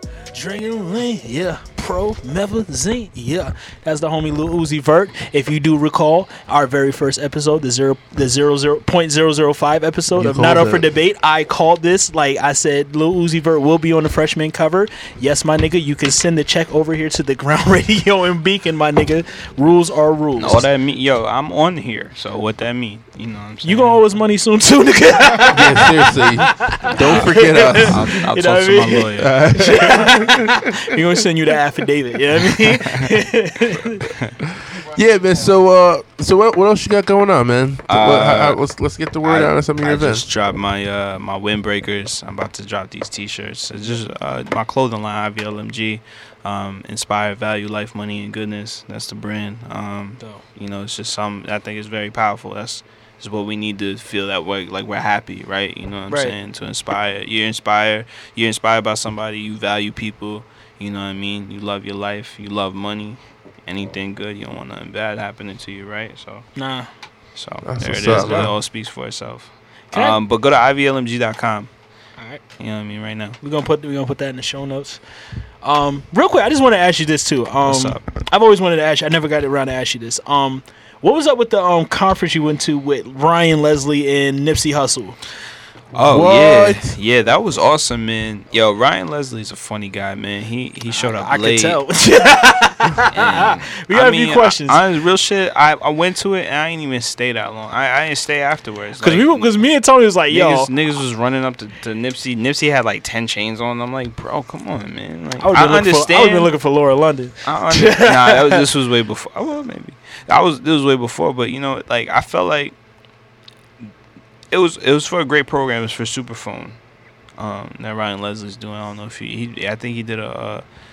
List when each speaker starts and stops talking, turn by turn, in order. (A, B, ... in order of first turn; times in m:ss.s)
0:00.3-0:20.7 A
0:10.1-0:10.9 B
0:20.4-0:24.0 C
0:23.6-0:34.0 A
0:25.5-0:28.2 B
0:27.0-0:29.4 C
0:29.2-0:30.6 B
0:32.7-0:33.1 C
0:34.8-0:40.2 B
0:37.9-1:06.6 C
0:56.1-0:56.4 A
1:06.6-1:06.9 A
1:07.4-1:11.7 C
1:07.6-1:08.6 B
1:09.9-1:10.2 A
1:12.6-1:13.4 C
1:13.4-1:15.0 A
1:15.6-1:25.2 A
1:17.6-1:18.0 C
1:25.9-1:27.0 B
1:25.9-1:31.8 C
1:30.9-1:34.8 A
1:33.1-1:46.5 C
1:39.0-1:40.7 A
1:45.4-1:48.6 A
1:47.4-1:52.8 C
1:54.5-1:56.8 C
1:57.4-2:00.6 C